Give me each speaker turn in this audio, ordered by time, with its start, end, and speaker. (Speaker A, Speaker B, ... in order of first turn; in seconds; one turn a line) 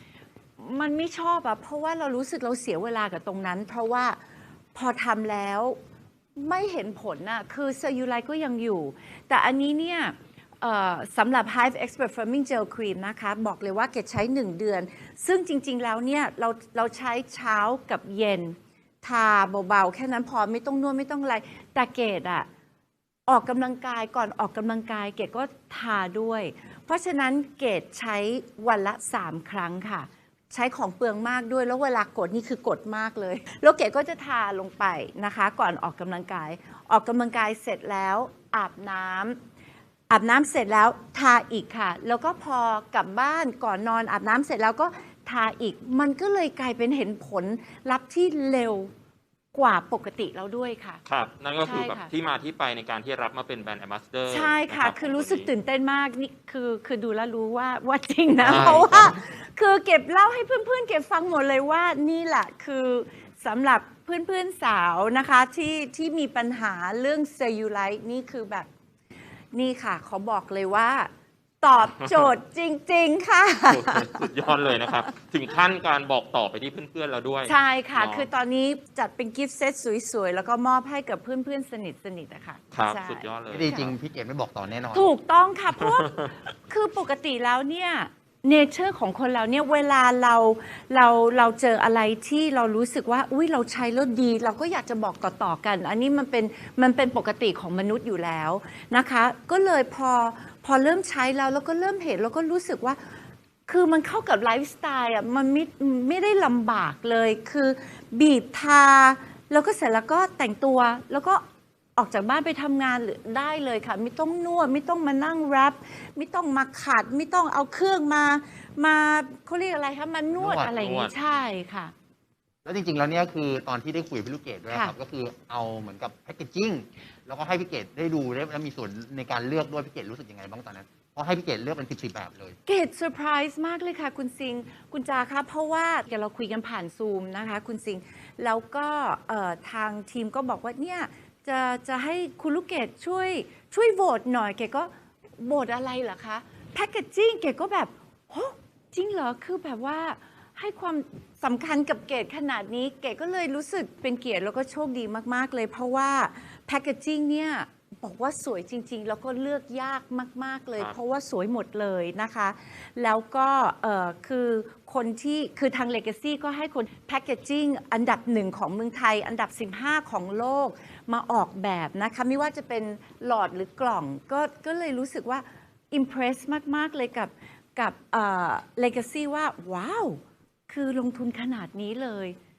Speaker A: 0.6-4.2
Speaker A: 4.7-5.8
Speaker A: 6.3-22.5
Speaker A: 23.3-39.4
Speaker A: 40.1-48.9
Speaker A: 49.5-51.0
Speaker B: 51.0-55.5
Speaker A: 51.6-52.1
Speaker A: 54.3-68.7
Speaker C: 58.4-59.1
Speaker B: 58.4-59.2
Speaker A: 69.5-71.1
Speaker A: 71.6-74.2
Speaker B: 72.0-72.3
Speaker B: 73.7-78.3
Speaker A: 77.5-83.8
Speaker B: 82.7-83.9
Speaker C: 83.5-85.1
Speaker A: 84.9-103.0
Speaker B: 85.8-86.3
Speaker A: 103.7-111.4
Speaker A: 112.0-121.9
Speaker C: 120.3-120.7
Speaker B: 120.7-121.1
Speaker C: 122.6-132.6
Speaker A: 124.7-124.9
Speaker A: 132.7-182.3